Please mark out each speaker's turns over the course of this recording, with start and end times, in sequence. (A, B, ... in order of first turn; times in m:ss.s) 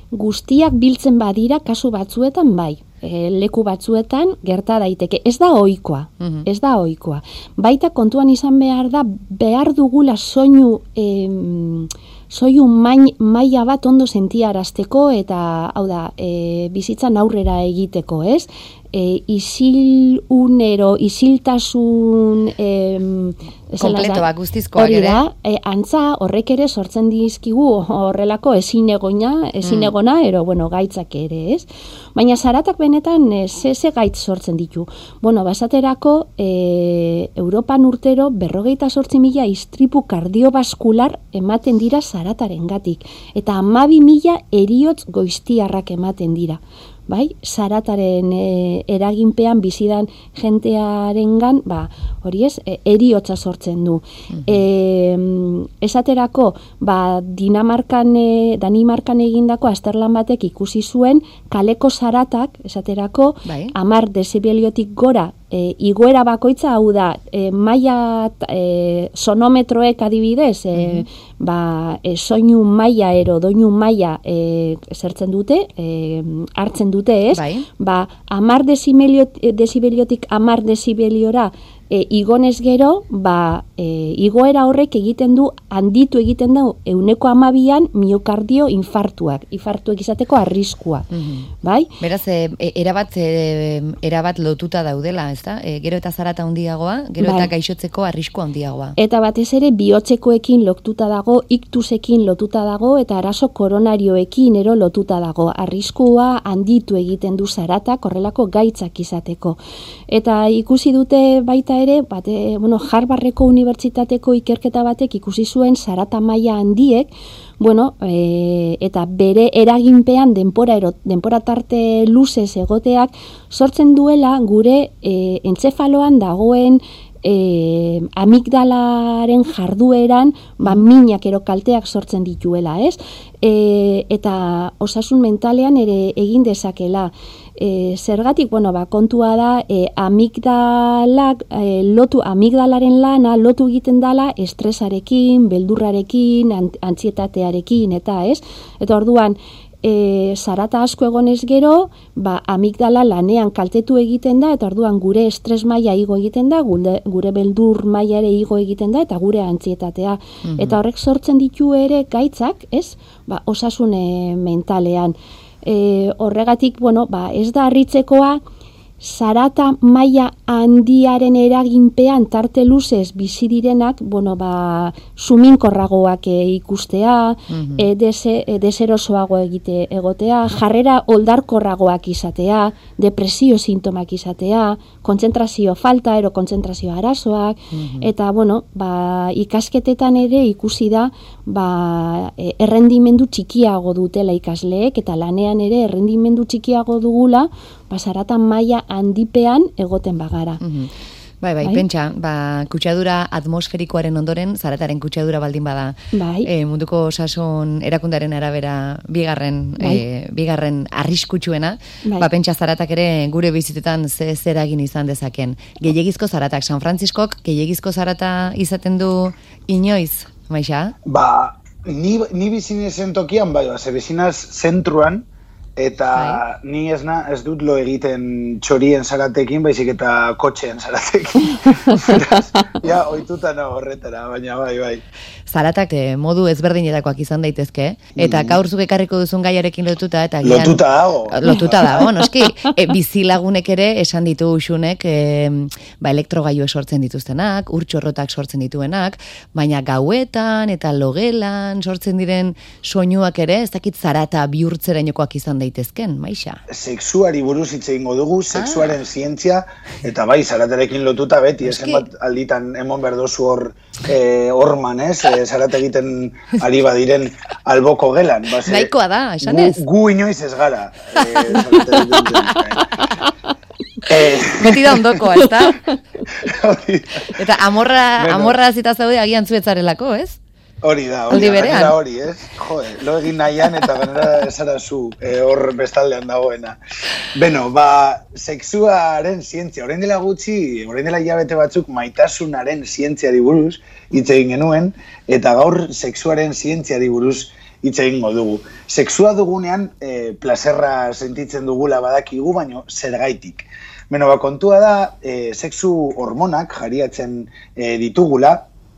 0:00.1-1:31.1 A
0:06.2-0:06.5 B
0:23.8-0:25.2 B
0:29.6-0:29.9 B
1:03.4-1:03.7 B
1:10.7-1:11.1 B
1:17.3-1:17.7 B
1:31.1-1:31.5 B
1:31.6-1:31.9 A
1:32.0-1:39.0 B
1:37.2-1:37.5 A
1:39.0-2:48.4 A
2:40.5-2:40.8 B
2:49.0-3:20.6 A
2:57.5-2:57.9 B
3:07.7-3:08.1 B
3:20.6-3:40.9 B
3:26.1-3:26.5 A
3:41.1-3:45.2 C
3:45.8-3:55.0 C
3:46.1-3:46.4 B
3:51.9-3:52.6 A
3:55.5-4:16.6 B
3:58.2-3:58.6 C
4:00.4-4:02.2 C
4:16.7-4:33.0 C
4:18.6-4:19.0 B
4:21.6-4:22.0 B
4:28.6-4:29.8 B
4:31.2-4:32.7 B
4:34.1-4:35.2 C
4:34.6-4:35.8 B
4:36.4-4:37.3 C
4:37.3-4:40.4 B
4:38.2-4:38.6 C
4:40.8-4:46.8 C
4:41.3-4:42.0 B
4:47.3-5:08.7 C